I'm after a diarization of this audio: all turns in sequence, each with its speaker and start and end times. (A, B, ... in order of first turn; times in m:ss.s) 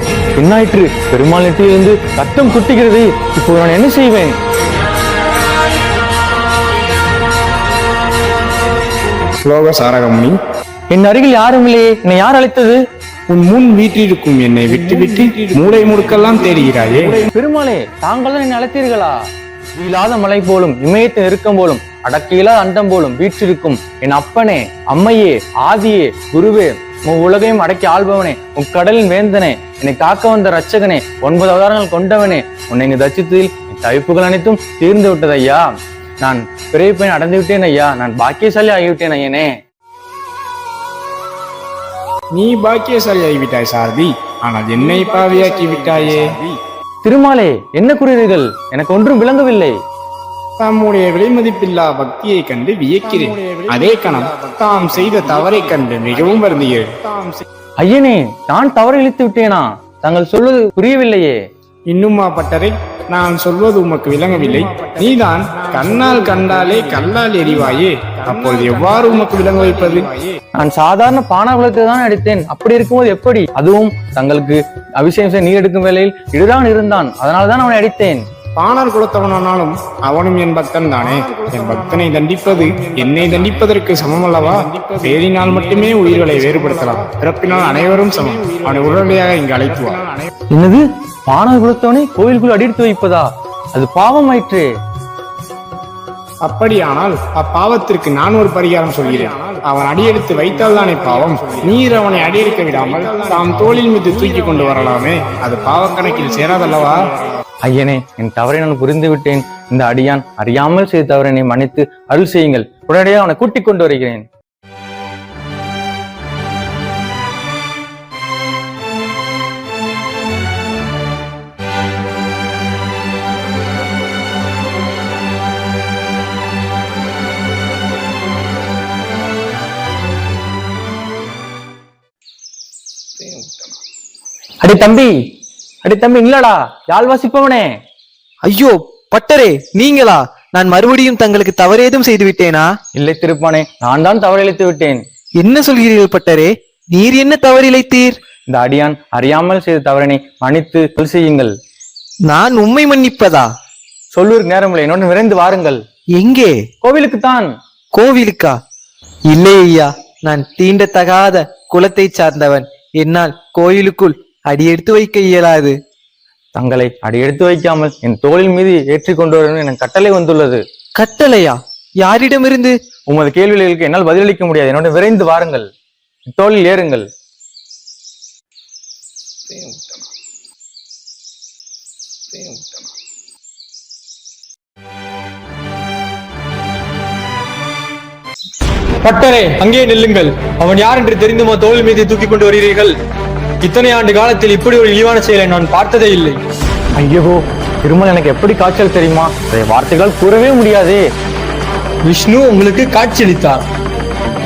0:00.4-0:04.4 A
0:09.5-0:10.3 B
0:10.9-0:12.8 A
0:13.3-0:17.2 B
0:17.3-0:19.1 A
0:19.8-0:35.6 A
0:36.2-0:39.5 A
0:42.4-0:46.5 B
0:47.0-0:49.7 A
0:50.6-0:57.4 B
0:57.8-1:01.4 A
1:01.9-1:10.3 B
1:10.6-1:18.2 A
1:18.6-1:30.3 B
1:30.5-1:34.6 A
1:36.5-1:47.1 B
1:47.7-1:54.2 A
2:14.6-2:15.1 A
2:15.8-2:17.7 A
2:18.5-2:22.7 C
2:23.0-2:25.0 A
2:25.4-2:28.2 C
2:28.5-2:31.5 A
2:32.3-2:33.5 C
2:34.1-2:35.8 A
2:36.2-2:36.6 C
2:36.8-2:37.5 A
2:38.0-2:38.6 C
2:39.3-2:45.8 C
2:46.6-2:50.6 A
2:51.0-2:52.7 C
2:53.1-2:55.7 A
2:56.4-2:57.0 A
3:09.1-3:09.3 A
3:09.1-3:10.5 D
3:10.1-3:11.8 A
3:11.8-3:12.9 D
3:13.6-3:16.4 D
3:17.0-3:21.0 A
3:22.1-3:23.6 D